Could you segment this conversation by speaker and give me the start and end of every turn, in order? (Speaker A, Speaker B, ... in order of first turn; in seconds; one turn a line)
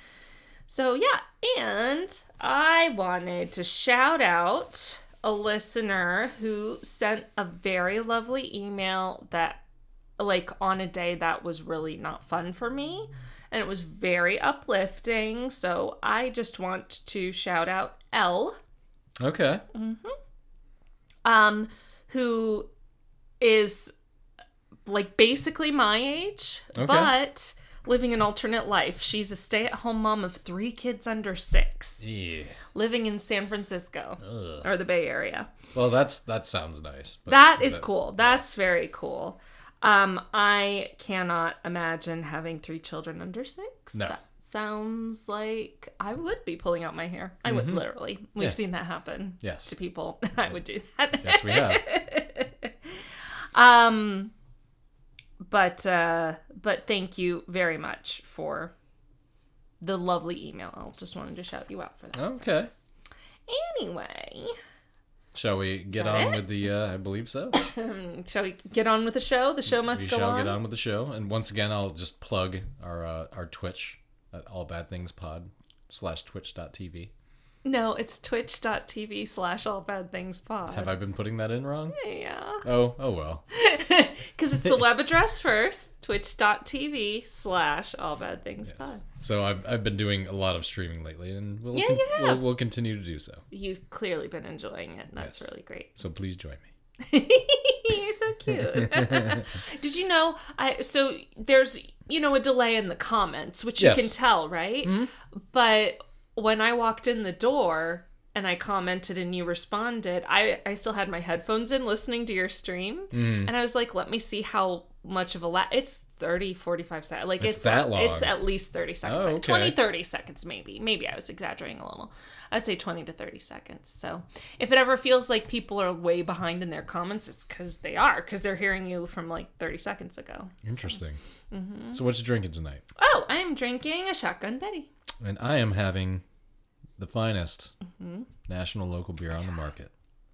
Speaker A: 0.7-9.6
Speaker A: 10.2-18.6
Speaker B: 19.2-19.6
Speaker A: 19.7-20.1
Speaker A: 21.2-22.7
Speaker A: 23.4-23.9
Speaker A: 24.9-32.0
Speaker B: 26.8-27.1
Speaker B: 32.0-32.6
Speaker A: 32.7-35.5
Speaker B: 34.2-34.6
Speaker B: 35.7-38.4
Speaker A: 37.3-52.7
Speaker B: 47.5-47.8
Speaker B: 49.4-49.7
Speaker B: 51.2-51.9
Speaker A: 53.5-54.3
Speaker A: 55.4-58.7
Speaker A: 59.8-62.5
Speaker B: 62.1-62.7
Speaker A: 63.5-64.6
Speaker B: 65.3-67.6
Speaker A: 65.9-66.5
Speaker A: 67.5-70.6
Speaker B: 69.7-77.1
Speaker A: 77.6-81.0
Speaker B: 80.7-82.0
Speaker A: 81.9-82.7
Speaker B: 82.6-83.4
Speaker A: 83.5-89.0
Speaker B: 88.7-93.4
Speaker A: 91.7-92.4
Speaker A: 93.5-96.0
Speaker B: 95.2-96.7
Speaker A: 97.0-131.0
Speaker B: 98.5-99.5
Speaker B: 103.8-104.2
Speaker B: 104.8-105.1
Speaker B: 113.1-113.5
Speaker B: 117.4-118.4
Speaker B: 119.0-119.8
Speaker B: 130.6-131.2
Speaker A: 131.5-132.0
Speaker B: 131.9-132.8
Speaker A: 133.0-134.9
Speaker B: 135.2-136.2
Speaker B: 137.0-137.7
Speaker A: 138.0-138.3
Speaker B: 138.5-139.9